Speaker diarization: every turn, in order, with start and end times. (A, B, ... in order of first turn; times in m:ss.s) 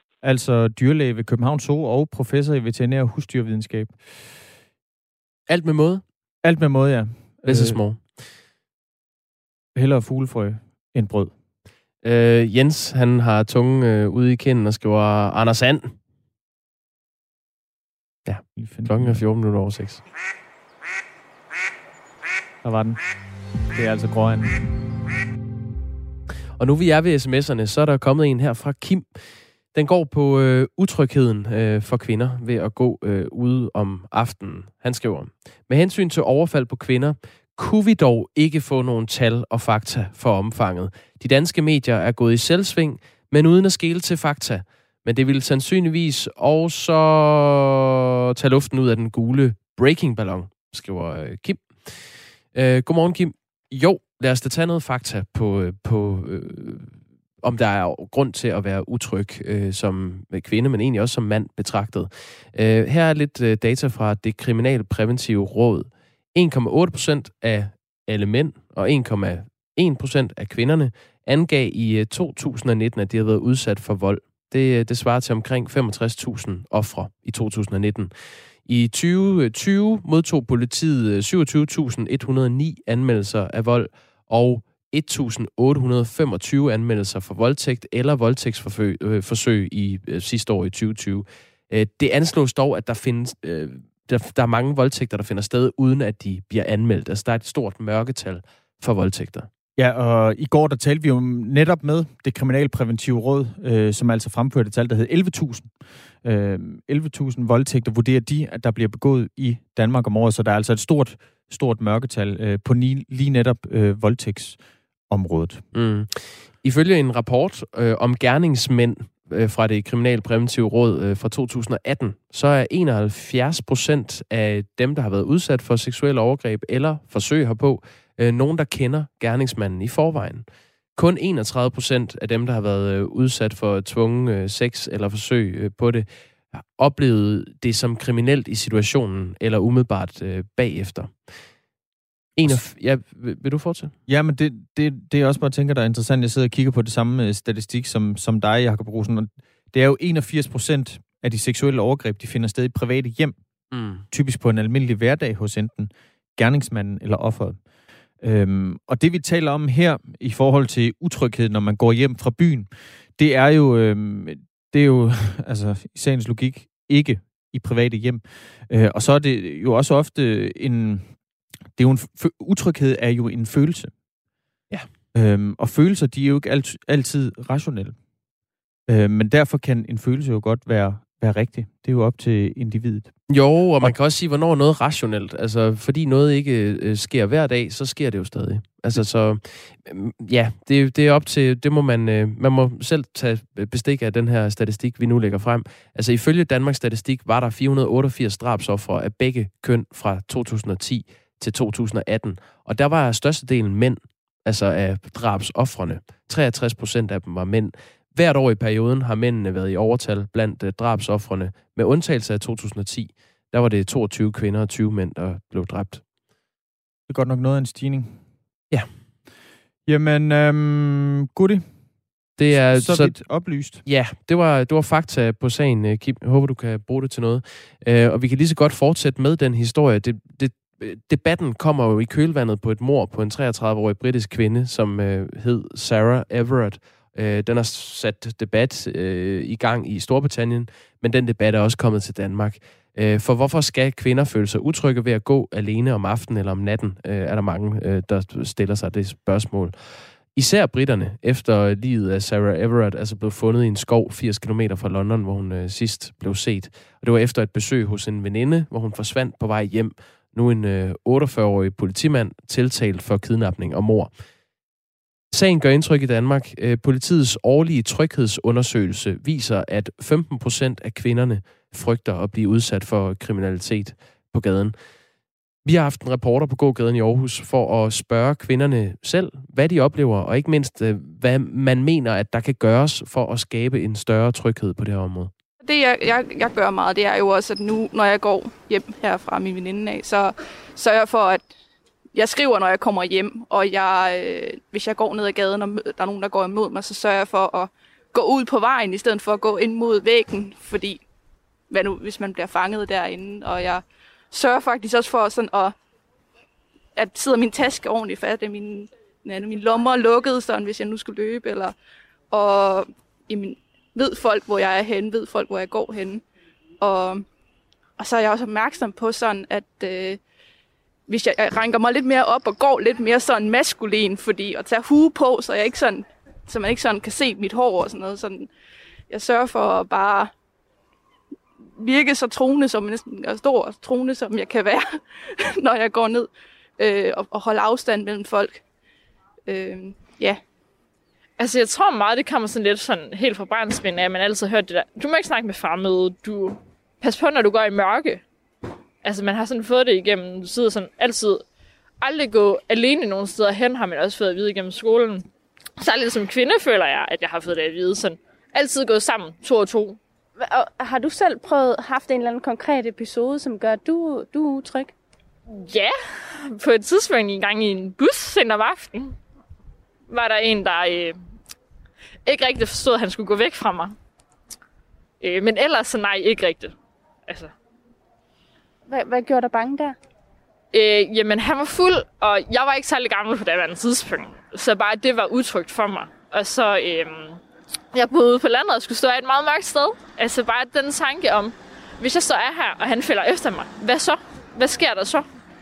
0:00.2-0:04.0 A
0:05.5-0:06.0 B
0:06.4-0:07.8 A
0:07.4-0:08.2 B
0:09.7-0:11.3 A
0:12.0-0:16.0 B
0:18.2-0:20.0 B
0:18.5-0:19.2 A
0:22.6-0:23.0 A
0:23.7-0:24.5 A
0:26.6-1:39.5 B
1:39.8-1:54.6 A
1:55.1-1:55.6 A
1:55.7-2:21.3 B
2:22.4-2:23.9 B
2:24.1-2:33.4 A
2:33.7-2:34.0 B
2:34.1-2:37.6 A
2:38.2-2:51.1 A
2:51.8-2:53.9 A
2:55.1-2:58.0 A
2:58.9-3:03.2 A
3:03.3-3:36.0 B
3:37.1-3:38.2 A
3:39.8-3:41.6 A
3:42.4-4:24.1 B
3:42.5-3:43.8 A
4:25.3-4:34.8 B
4:35.6-4:45.3 B
4:45.6-4:51.4 C
4:52.1-5:01.0 C
5:01.7-5:05.8 C
5:06.9-5:11.7 C
5:12.3-5:16.2 C
5:16.8-5:17.2 C
5:18.0-5:20.2 C
5:21.1-5:28.5 C
5:29.1-5:30.3 C
5:31.8-5:38.6 C
5:39.5-5:40.4 C
5:41.4-5:48.2 D
5:49.0-5:51.4 D
5:52.0-5:55.2 D
5:55.8-6:00.0 D
6:00.4-6:04.9 E
6:05.5-6:09.2 D
6:10.1-6:11.2 D
6:12.2-6:13.9 D
6:15.2-6:16.7 D
6:17.3-6:17.5 D
6:18.9-6:20.0 E
6:20.7-6:27.4 D
6:27.9-6:35.2 D